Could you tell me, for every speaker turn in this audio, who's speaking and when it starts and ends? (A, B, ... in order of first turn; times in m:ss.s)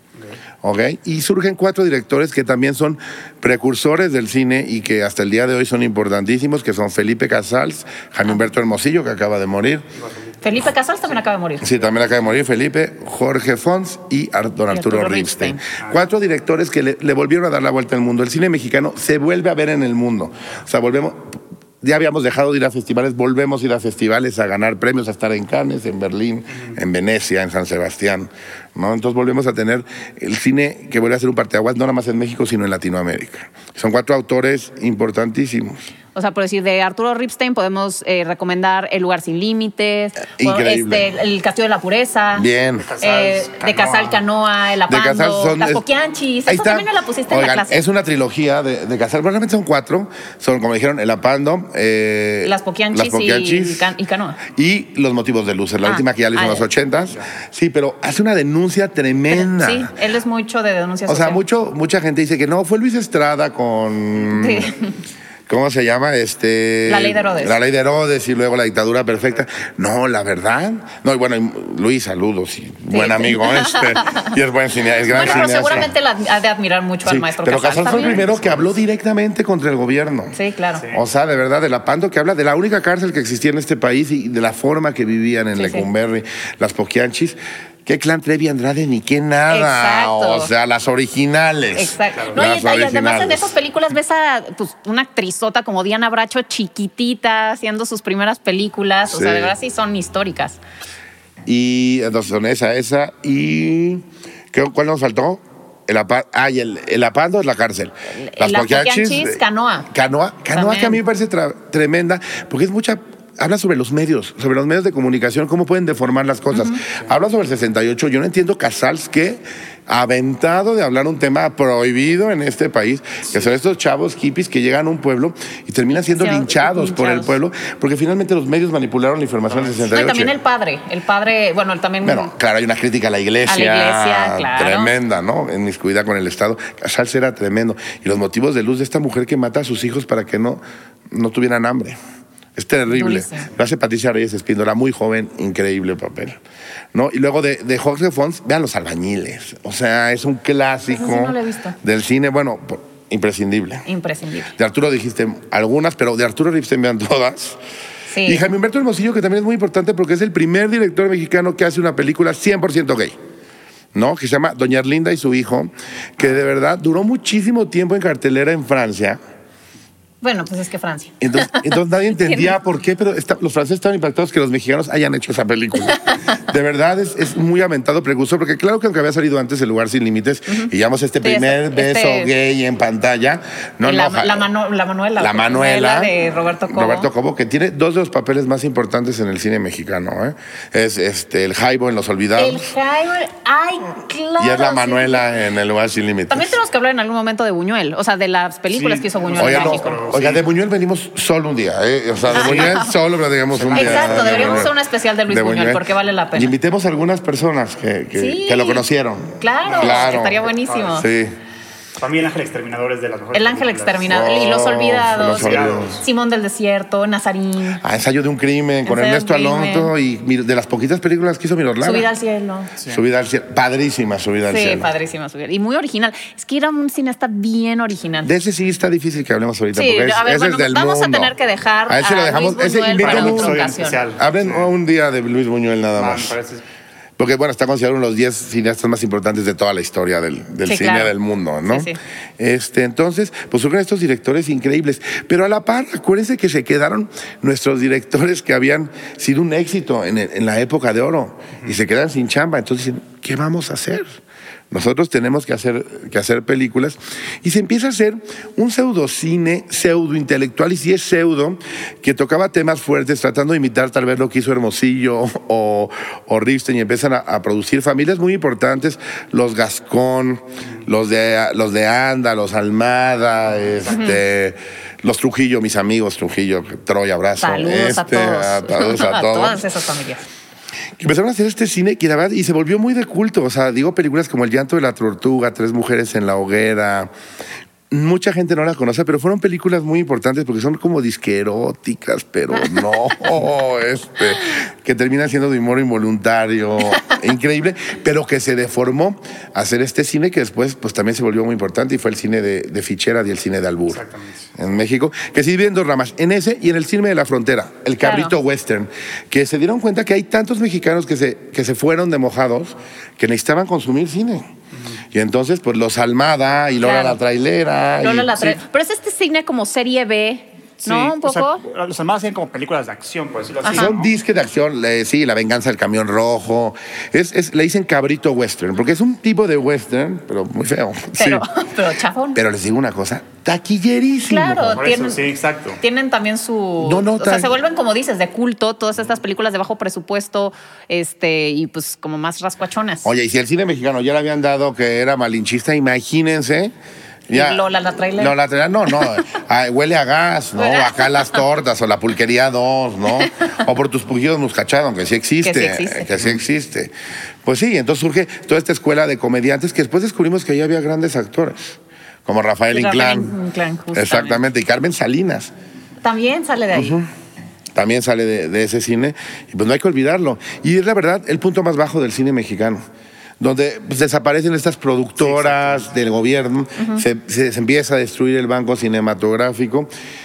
0:00.6-0:09.8 A
0:10.0-0:10.4 B
0:10.4-0:11.7 C
0:11.6-0:35.8 A
0:14.7-0:15.6 C
0:36.1-0:42.5 C
0:40.3-0:41.1 A
0:42.3-0:42.9 A
0:42.8-0:44.2 B
0:43.0-0:47.8 C
0:44.9-0:45.8 A
0:46.4-0:59.9 A
0:52.4-0:54.4 C
0:55.8-0:56.6 C
0:59.3-1:01.4 C
1:01.1-1:04.7 A
1:04.3-1:04.9 C
1:05.5-1:15.9 A
1:06.9-1:07.6 C
1:12.9-1:14.3 C
1:15.1-1:18.2 C
1:15.1-1:15.9 B
1:17.0-1:20.4 A
1:17.8-1:18.7 B
1:20.3-1:20.8 C
1:20.9-1:33.5 A
1:25.5-1:25.9 C
1:29.5-1:30.5 C
1:31.7-1:40.6 C
1:39.1-1:39.5 A
1:41.4-2:10.3 A
1:48.2-1:49.9 C
1:50.5-1:51.0 C
1:56.5-1:56.8 C
2:06.0-2:07.4 C
2:09.5-2:09.9 B
2:09.9-2:12.3 C
2:12.0-2:22.0 A
2:13.4-2:14.9 C
2:22.6-2:26.4 A
2:22.9-2:23.5 C
2:26.9-2:33.8 A
2:30.9-2:31.8 C
2:33.8-2:34.5 C
2:34.6-2:37.6 A
2:38.1-2:38.4 C
2:38.2-2:43.1 A
2:43.9-2:49.2 A
2:50.2-2:52.5 C
2:51.2-3:04.5 A
2:55.9-2:56.4 C
3:01.2-3:02.3 C
3:03.8-3:07.1 C
3:05.2-3:06.1 A
3:06.7-3:12.7 A
3:12.4-3:15.2 C
3:14.4-3:16.6 A
3:16.3-3:20.1 C
3:18.7-3:20.4 B
3:19.4-3:24.7 A
3:22.3-3:22.8 B
3:22.3-3:22.9 C
3:23.5-3:24.7 B
3:23.7-3:26.5 C
3:25.3-3:31.4 A
3:28.2-3:28.8 C
3:29.4-3:31.0 C
3:29.6-3:31.0 B
3:32.0-3:34.1 B
3:33.3-3:37.8 C
3:34.1-3:36.0 A
3:35.2-3:36.0 B
3:37.8-3:42.1 A
3:38.8-3:39.9 C
3:41.8-3:42.7 C
3:42.9-3:44.9 A
3:44.5-3:48.3 C
3:48.2-3:51.3 A
3:49.7-3:54.0 C
3:51.9-3:53.6 A
3:53.0-3:54.7 B
3:54.2-3:56.3 A
3:55.9-3:56.6 B
3:57.2-4:14.2 A
4:00.6-4:01.1 C
4:01.7-4:02.0 C
4:14.7-4:39.6 A
4:33.9-4:34.2 C
4:37.4-4:40.2 C
4:41.0-4:47.1 A
4:47.9-5:04.0 A
4:52.5-4:53.0 C
4:56.9-4:57.2 C
5:03.9-5:04.5 B
5:04.5-5:14.5 A
5:08.0-5:08.3 C
5:15.1-5:18.6 A
5:16.8-5:17.2 C
5:18.0-5:21.6 C
5:20.8-5:24.1 B
5:23.6-5:23.9 C
5:23.7-5:31.5 A
5:31.2-5:32.4 C
5:32.3-5:34.8 A
5:34.3-5:35.2 C
5:34.7-5:35.8 B
5:35.8-5:43.1 C
5:36.8-5:37.5 A
5:43.0-5:46.7 A
5:47.3-5:48.3 C
5:47.3-5:56.9 A
5:50.6-5:51.4 C
5:53.1-5:53.5 C
5:55.4-5:56.2 C
5:57.4-6:03.3 A
6:02.7-6:04.4 C
6:03.9-6:05.5 A
6:06.0-6:07.0 C
6:06.7-6:07.1 A
6:07.7-6:12.8 A
6:13.4-6:19.9 A
6:15.2-6:15.9 B
6:16.8-6:17.0 C